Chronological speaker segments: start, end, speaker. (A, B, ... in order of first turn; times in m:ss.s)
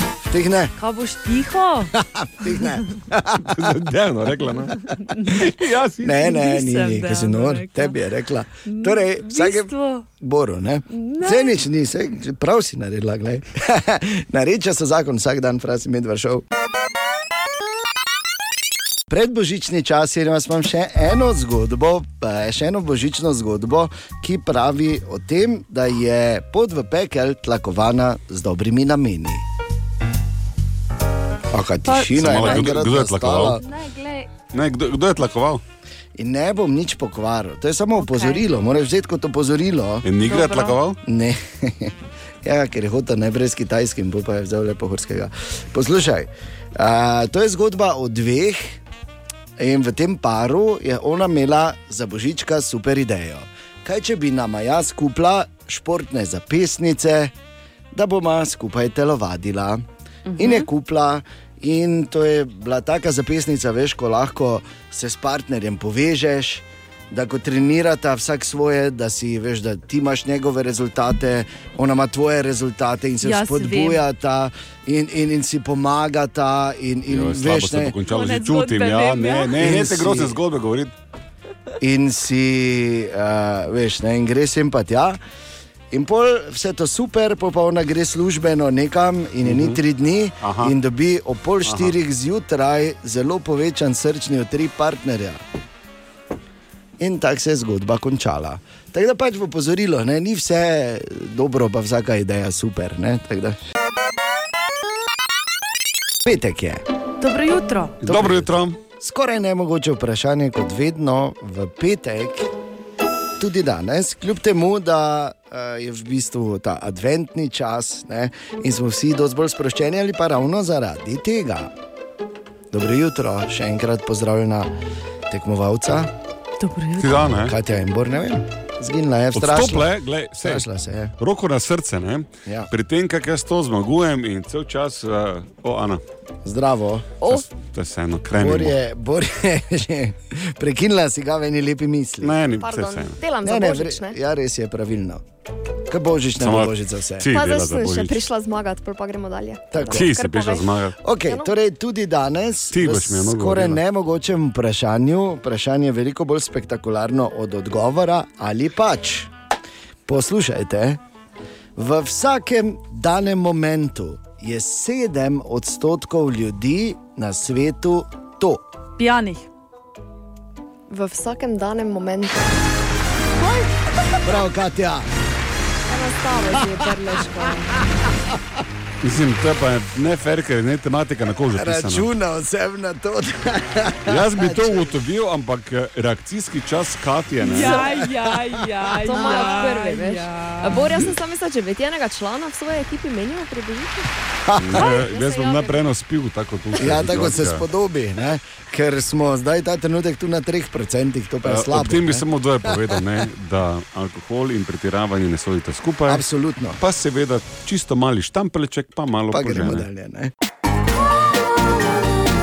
0:00.3-0:00.7 A
0:00.8-0:01.9 B
0:02.0-0:03.8 A
0:03.4-0:06.3 C
0:06.0-0:16.4 A
0:06.1-0:08.0 B
0:08.7-0:10.0 B
0:10.9-0:11.5 B
0:19.1-0:29.4 A
0:31.5-0:33.6 A
0:31.8-0:32.8 B
0:32.0-0:33.6 C
0:33.6-0:34.3 B
0:34.5-0:35.6 C
0:36.2-0:40.1 A
0:38.0-0:38.5 B
0:40.0-0:41.0 C
0:40.2-0:40.8 B
0:41.0-0:48.8 A
0:49.6-0:57.3 A
0:57.9-0:59.8 A
1:00.3-1:00.7 B
1:00.4-1:18.0 A
1:13.2-1:14.0 B
1:17.1-1:20.9 C
1:18.0-1:19.7 B
1:19.6-1:20.4 A
1:21.8-1:25.2 A
1:25.9-1:35.4 A
1:29.4-1:29.8 C
1:30.4-1:30.7 C
1:31.7-1:31.9 C
1:37.0-1:43.6 A
1:46.2-1:46.8 A
1:47.2-1:48.0 B
1:48.0-1:48.8 C
1:48.0-1:52.5 A
1:53.4-2:01.7 A
2:02.7-2:04.7 A
2:05.3-2:06.1 A
2:06.6-2:07.2 B
2:07.0-2:07.6 C
2:07.4-2:09.9 A
2:09.3-2:10.6 C
2:10.4-2:11.1 A
2:11.2-2:16.0 C
2:16.4-2:17.2 A
2:17.3-2:18.8 C
2:18.3-2:22.4 A
2:22.2-2:23.2 C
2:22.6-2:24.2 D
2:23.4-2:25.2 A
2:25.9-2:27.3 A
2:26.4-2:28.2 C
2:27.3-2:30.7 D
2:29.7-2:30.2 A
2:29.9-2:31.0 C
2:31.0-2:39.3 A
2:31.2-2:31.5 D
2:32.7-2:33.8 C
2:40.1-2:41.0 A
2:41.8-2:48.6 A
2:49.0-2:49.5 B
2:50.9-2:52.4 D
2:54.2-2:55.1 A
2:55.9-2:57.8 D
2:59.0-3:02.1 C
3:01.6-3:04.9 A
3:04.1-3:07.8 C
3:07.4-3:11.0 B
3:07.4-3:08.5 A
3:07.6-3:07.9 D
3:09.0-3:14.1 D
3:09.1-3:09.6 A
3:14.5-3:15.0 A
3:14.6-3:17.6 C
3:14.8-3:15.8 D
3:16.8-3:23.0 A
3:21.4-3:26.2 C
3:26.1-3:26.8 A
3:26.8-3:29.9 C
3:29.3-3:30.3 A